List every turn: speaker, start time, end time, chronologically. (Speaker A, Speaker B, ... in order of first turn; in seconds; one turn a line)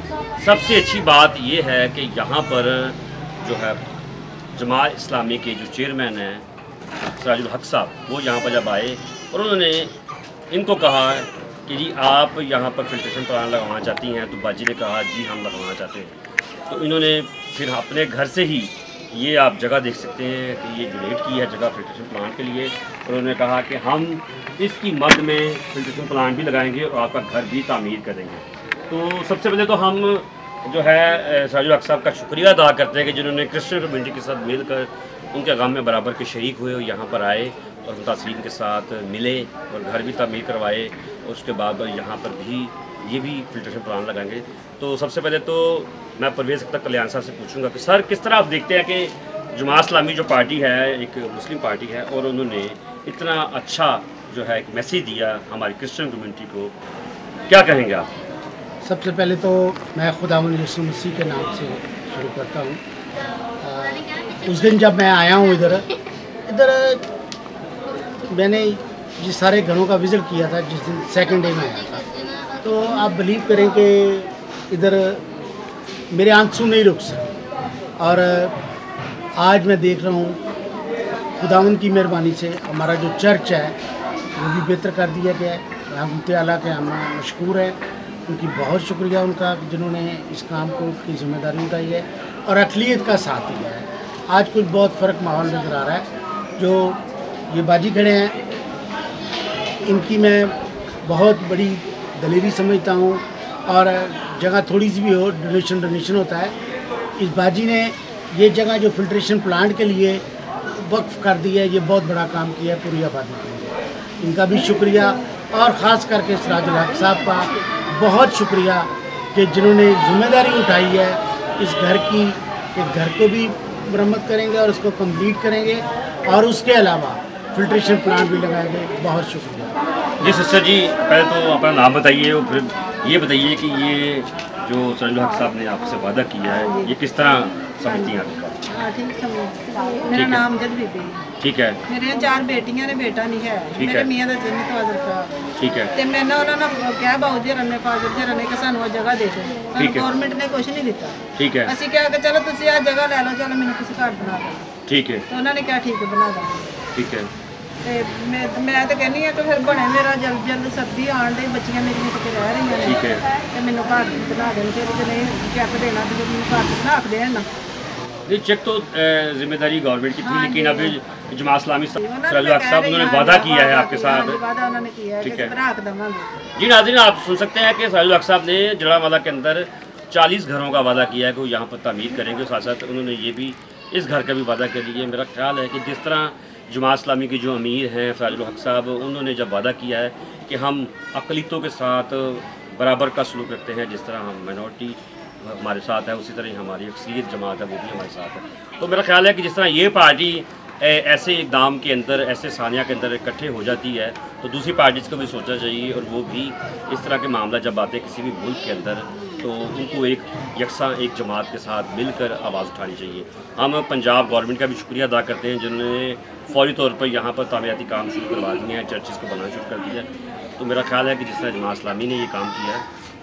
Speaker A: 0.4-3.8
Speaker A: 4.5-6.5
Speaker A: 7.2-9.9
Speaker A: 10.5-56.7
Speaker A: 57.5-58.1
Speaker B: 58.8-62.8
Speaker B: 63.6-65.9
Speaker B: 66.5-67.0
Speaker B: 68.3-75.2
Speaker B: 76.1-77.2
Speaker B: 78.0-78.5
Speaker B: 79.4-80.4
Speaker B: 81.4-83.8
Speaker B: 84.4-98.3
Speaker B: 99.8-106.5
Speaker B: 107.2-110.2
Speaker B: 110.8-130.3
Speaker A: 130.2-138.6
Speaker C: 136.7-136.9
Speaker C: 137.9-138.1
Speaker C: 138.7-141.3
Speaker A: 140.1-140.5
Speaker A: 141.4-141.8
Speaker C: 141.9-145.3
Speaker A: 143.8-144.1
Speaker A: 145.6-145.9
Speaker C: 145.9-154.7
Speaker A: 149.8-150.1
Speaker A: 151.4-151.8
Speaker A: 154.9-155.3
Speaker C: 155.3-156.8
Speaker A: 156.9-157.3
Speaker C: 157.8-167.5
Speaker A: 162.8-163.3
Speaker A: 168.3-174.4
Speaker C: 170.2-171.0
Speaker C: 172.0-176.5
Speaker A: 175.2-175.5
Speaker A: 176.6-222.8